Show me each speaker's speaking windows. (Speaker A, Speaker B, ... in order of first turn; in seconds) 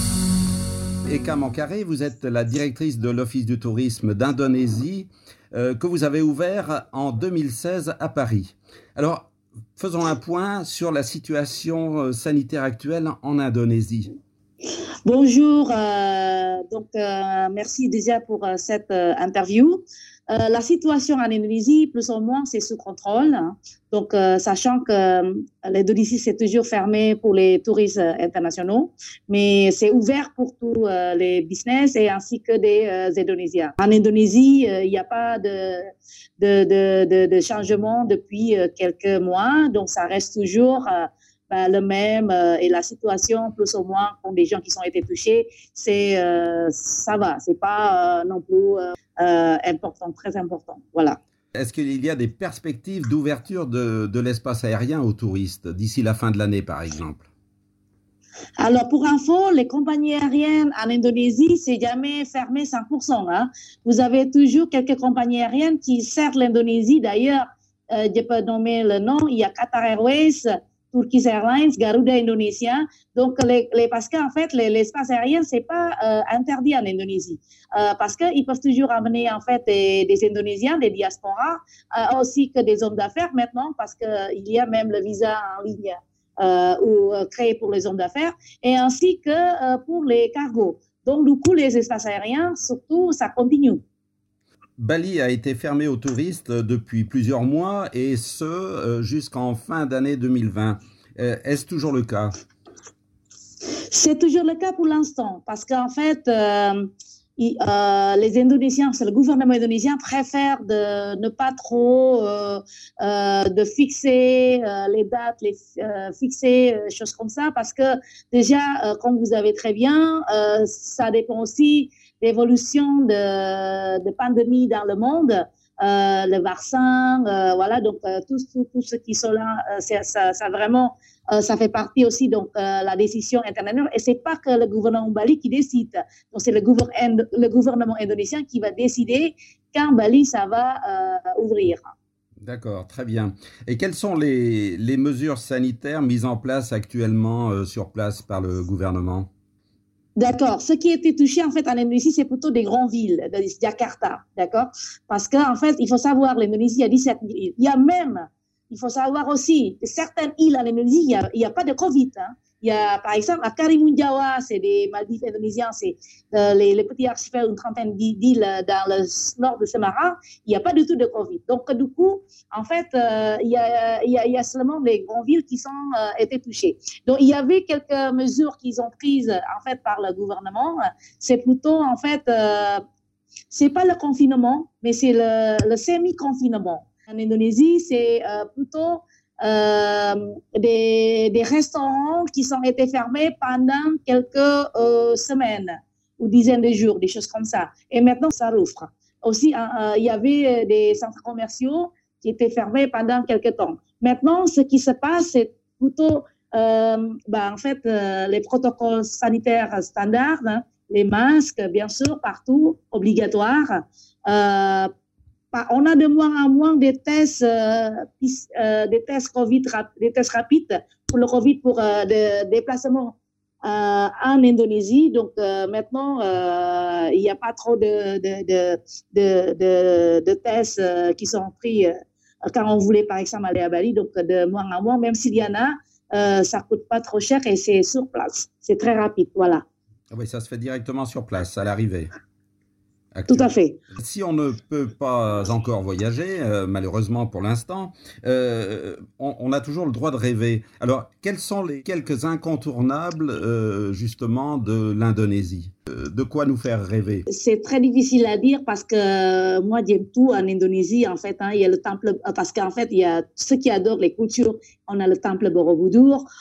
Speaker A: 1.1-14.1, 51.5-57.3, 94.8-102.3, 142.4-149.3, 240.1-242.1, 243.1-257.2
Speaker B: 15.0-35.9, 36.4-51.2, 58.6-93.8, 103.9-141.9, 150.2-182.8, 183.5-214.9, 215.5-231.9, 232.5-239.6, 243.3-243.8, 257.3-266.2